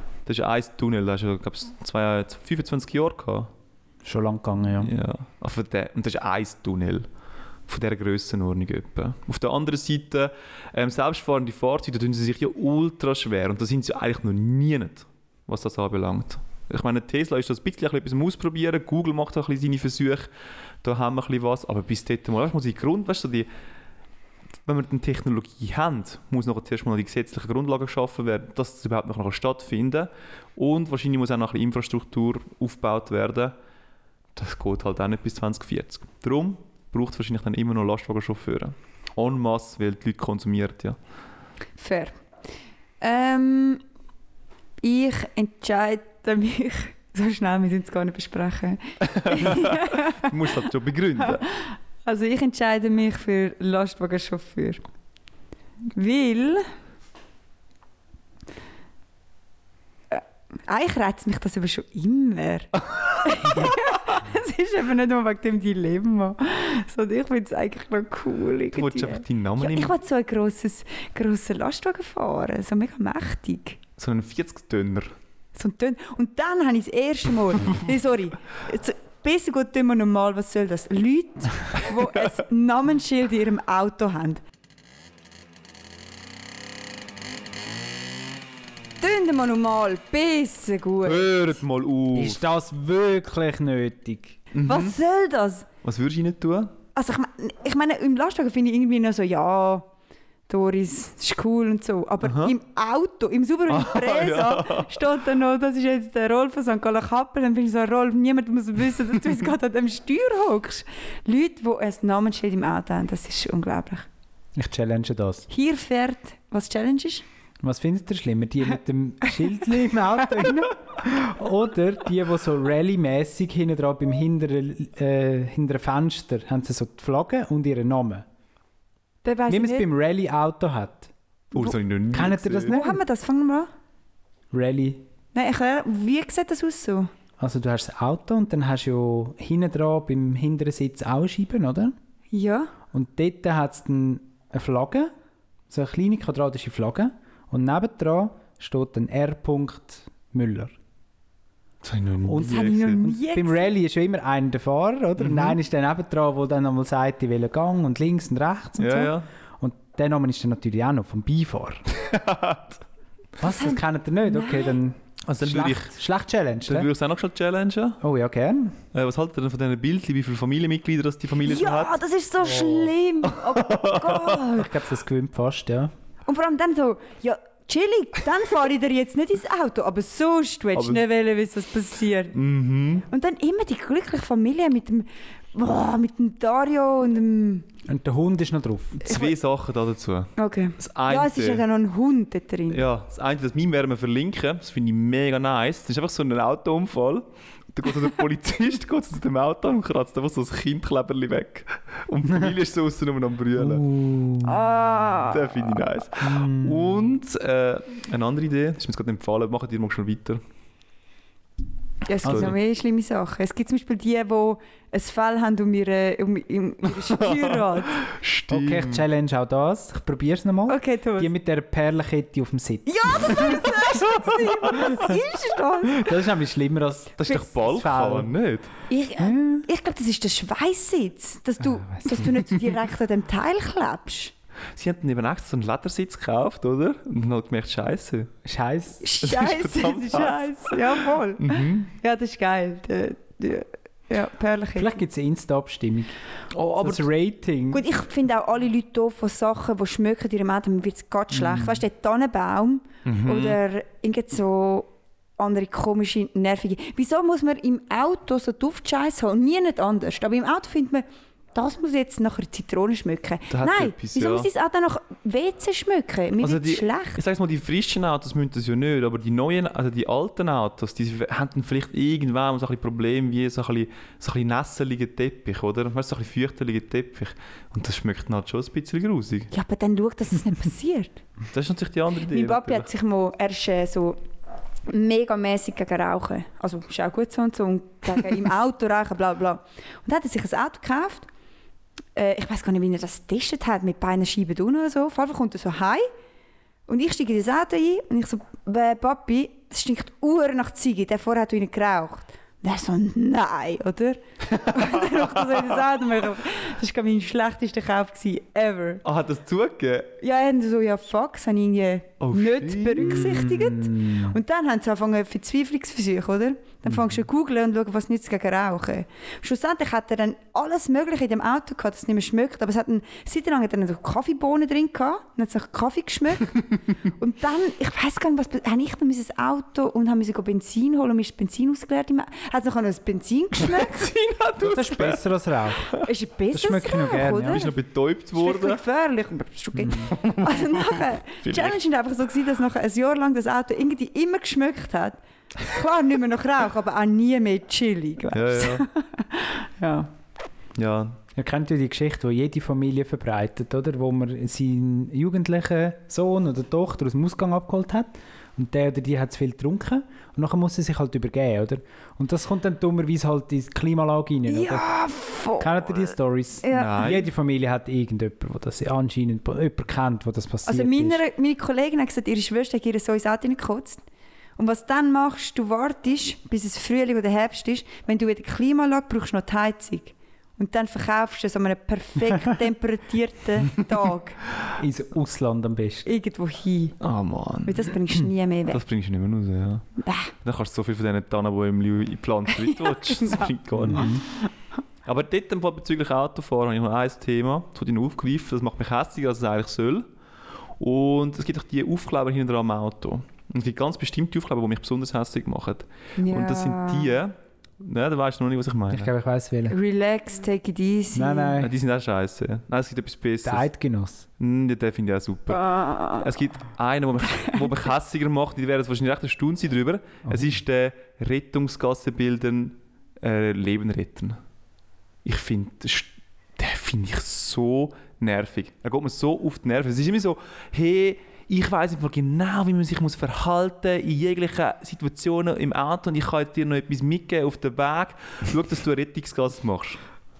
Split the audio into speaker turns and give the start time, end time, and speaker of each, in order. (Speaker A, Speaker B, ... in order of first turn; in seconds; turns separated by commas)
Speaker A: 0.3-3.5, Speaker B: 4.0-4.9, Speaker A: 4.8-7.1, Speaker A: 7.7-20.3, Speaker A: 20.8-23.5, Speaker A: 24.6-33.5, Speaker A: 34.4-41.0, Speaker C: 41.8-42.2, Speaker C: 43.0-43.8, Speaker C: 44.8-50.4, Speaker A: 49.0-51.5, Speaker C: 51.2-54.8, Speaker C: 55.9-56.7, Speaker C: 60.1-73.8, Speaker A: 68.7-70.0, Speaker A: 74.0-75.2, Speaker C: 75.6-84.4, Speaker C: 89.0-91.3, Speaker A: 91.0-92.5, Speaker B: 92.1-94.4, Speaker A: 94.5-95.0, Speaker C: 94.7-95.7, Speaker A: 95.8-96.8, Speaker C: 97.0-99.9, Speaker C: 100.5-114.1, Speaker A: 102.2-102.5, Speaker A: 103.7-105.1, Speaker B: 114.6-115.5, Speaker C: 115.5-117.2, Speaker B: 117.6-128.3, Speaker C: 129.2-129.9, Speaker B: 129.5-131.1, Speaker A: 131.5-132.8, Speaker B: 132.1-133.0, Speaker C: 132.7-133.7, Speaker B: 134.5-135.1, Speaker C: 135.3-137.1, Speaker B: 137.4-141.9, Speaker C: 142.3-142.7, Speaker B: 142.9-145.1, Speaker B: 145.7-150.8, Speaker A: 151.8-153.0, Speaker B: 152.2-161.8, Speaker C: 152.4-153.7, Speaker A: 155.2-155.6, Speaker A: 158.8-159.3, Speaker A: 161.9-162.8, Speaker B: 163.4-166.9, Speaker C: 163.4-164.8, Speaker A: 165.3-166.0, Speaker A: 166.7-168.0, Speaker B: 168.0-168.8, Speaker A: 168.9-172.0, Speaker C: 171.4-174.8, Speaker B: 172.4-172.9, Speaker A: 173.2-174.4, Speaker B: 174.5-175.9, Speaker C: 176.3-182.4, Speaker A: 180.8-181.0, Speaker A: 182.3-183.1, Speaker C: 183.1-187.7, Speaker B: 187.9-189.1, Speaker A: 189.0-191.6, Speaker C: 189.1-189.3, Speaker C: 190.4-192.8, Speaker A: 192.7-203.8, Speaker B: 203.6-204.6, Speaker C: 204.4-205.6, Speaker A: 205.2-210.4, Speaker B: 206.2-207.0, Speaker C: 212.1-218.0, Speaker A: 212.2-212.6, Speaker A: 217.2-219.1, Speaker B: 218.5-223.5, Speaker C: 220.7-221.3, Speaker C: 222.9-226.1, Speaker A: 224.0-225.0, Speaker B: 225.9-228.3, Speaker A: 227.2-228.7, Speaker C: 228.9-234.3, Speaker B: 229.2-229.6, Speaker B: 231.8-232.3, Speaker A: 234.7-238.3, Speaker B: 238.4-239.1, Speaker C: 239.0-245.0, Speaker A: 239.2-241.9, Speaker B: 244.8-246.1, Speaker A: 246.5-247.1, Speaker B: 246.7-247.8, Speaker C: 247.7-267.2, Speaker B: 251.3-251.8, Speaker A: 253.1-253.6, Speaker A: 263.5-264.5, Speaker A: 266.4-279.5, Speaker C: 279.5-281.2, Speaker A: 281.5-282.9, Speaker C: 282.2-284.2, Speaker C: 284.9-291.3, Speaker C: 292.2-296.1, Speaker C: 296.9-309.0, Speaker A: 304.4-305.6, Speaker A: 309.0-310.2, Speaker C: 310.2-334.1, Speaker A: 312.2-313.4, Speaker B: 313.0-314.4, Speaker A: 333.6-335.2, Speaker B: 334.6-335.9, Speaker C: 336.0-337.8, Speaker B: 336.5-337.6, Speaker A: 337.5-338.8, Speaker C: 338.4-350.1, Speaker B: 339.8-340.1, Speaker A: 340.1-340.9, Speaker A: 341.4-341.8, Speaker A: 348.3-348.9, Speaker A: 350.8-351.2, Speaker B: 351.4-364.9, Speaker C: 364.5-366.1, Speaker B: 365.6-371.2, Speaker C: 366.6-367.1, Speaker A: 366.7-367.3, Speaker C: 370.7-374.0, Speaker C: 374.6-384.4, Speaker B: 384.8-386.1, Speaker C: 386.1-387.0, Speaker A: 387.0-388.1, Speaker C: 387.6-388.8, Speaker A: 388.7-389.9, Speaker C: 390.0-390.3, Speaker A: 390.4-394.1, Speaker C: 392.6-394.2, Speaker B: 393.8-394.2, Speaker A: 395.1-400.1, Speaker A: 400.8-409.1, Speaker C: 406.2-407.1, Speaker B: 408.9-409.8, Speaker C: 409.7-411.6, Speaker B: 411.1-411.7, Speaker A: 411.6-413.7, Speaker B: 413.4-414.3, Speaker A: 414.4-424.4, Speaker C: 415.5-416.3, Speaker C: 417.4-417.6, Speaker B: 420.2-420.5, Speaker A: 425.2-440.0